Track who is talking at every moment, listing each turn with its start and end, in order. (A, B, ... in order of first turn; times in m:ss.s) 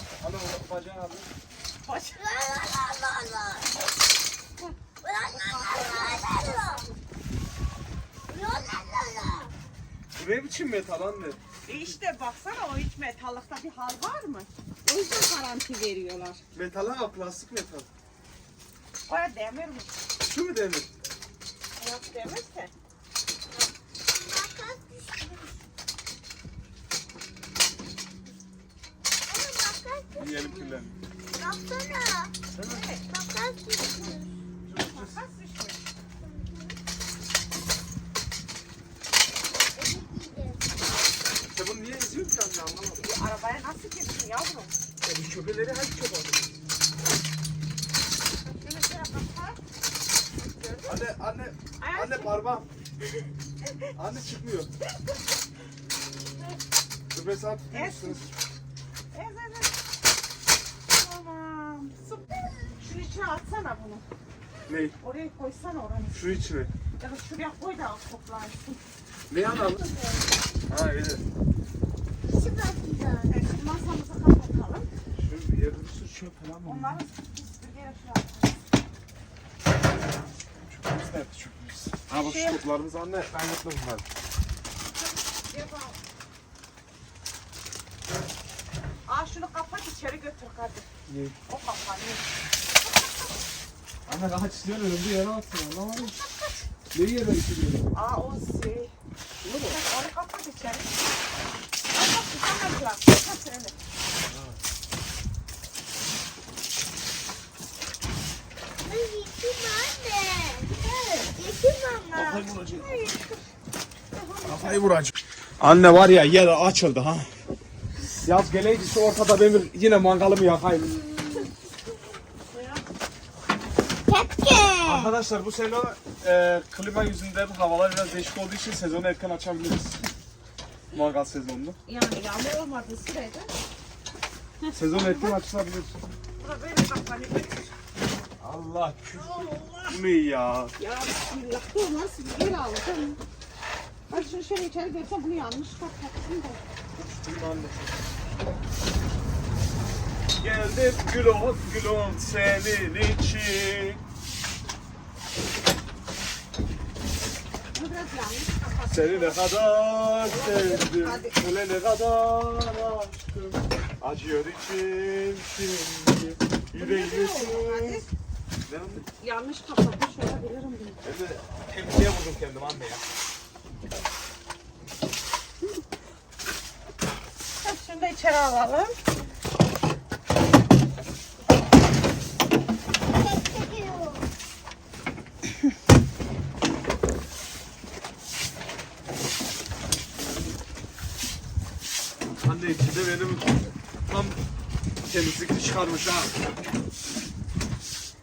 0:00.2-0:01.3 A
0:01.8-0:02.4 B
0:02.2-0:03.8 C
0:05.0-0:06.8 C
0:05.5-0:06.9 B
0:08.3-0:09.5 C
0:10.2-0:11.4 A
0:11.6-0:16.4 B
0:16.5-0:17.9 A
0:19.1-0:19.9 B
0:20.2-0:20.9 A
0:21.8-0:22.7 B
0:24.1-0:25.6 C
0:29.2-0:30.8 C
0:30.2-0:31.0 A
0:31.3-0:32.3 C
0:32.5-0:32.9 A
0:32.7-0:33.0 B
0:33.0-0:34.4 C
0:34.6-0:35.2 A
0:34.8-0:35.9 B
0:36.2-0:36.8 C
0:39.6-0:40.9 C
0:41.5-0:43.1 A
0:43.0-0:44.8 B
0:45.0-0:46.5 A
0:48.4-0:49.6 B
0:50.3-0:51.0 B
0:50.8-0:52.7 A
0:51.8-0:52.4 B
0:53.6-0:53.9 B
0:54.0-0:54.7 A
0:57.1-0:58.3 A
0:57.7-0:58.2 B
0:59.1-0:59.7 B
1:00.9-1:04.0 B
1:04.7-1:05.0 A
1:05.0-1:06.5 B
1:06.1-1:06.7 A
1:07.0-1:08.8 B
1:09.3-1:09.8 A
1:09.8-1:10.2 C
1:10.7-1:11.2 A
1:12.3-1:13.4 C
1:13.2-1:14.9 B
1:15.2-1:17.0 A
1:16.6-1:18.6 B
1:20.6-1:24.0 A
1:22.1-1:22.6 B
1:24.9-1:26.0 B
1:29.1-1:30.9 B
1:31.1-1:31.4 A
1:31.5-1:32.3 B
1:32.8-1:33.4 B
1:34.0-1:36.2 A
1:36.2-1:36.5 B
1:36.9-1:38.0 A
1:37.9-1:38.9 B
1:39.4-1:39.8 A
1:39.6-1:41.0 B
1:41.9-1:43.8 B
1:44.2-1:44.6 A
1:48.8-1:50.7 C
1:50.7-1:51.3 B
1:51.3-1:52.5 C
1:52.1-1:53.0 A
1:52.6-1:53.4 B
1:54.1-1:55.1 B
1:54.5-1:55.0 A
1:55.6-1:57.3 A
1:58.2-2:01.0 A
2:02.5-2:02.8 B
2:04.1-2:05.1 C
2:04.8-2:10.1 A
2:10.9-2:11.8 A
2:11.9-2:13.5 B
2:14.6-2:15.4 B
2:14.7-2:16.0 A
2:16.4-2:17.7 B
2:18.4-2:20.8 A
2:19.1-2:20.0 B
2:20.8-2:23.2 B
2:24.1-2:26.7 B
2:27.0-2:28.0 A
2:30.4-2:34.0 A
2:37.7-2:39.5 B
2:38.9-2:48.0 A
2:40.2-2:41.4 B
2:46.7-2:48.1 B
2:48.6-2:49.1 A
2:49.2-2:51.0 B
2:51.0-2:53.0 A
2:57.6-2:58.9 B
3:03.1-3:04.3 C
3:12.4-3:14.4 A
3:15.0-3:16.4 A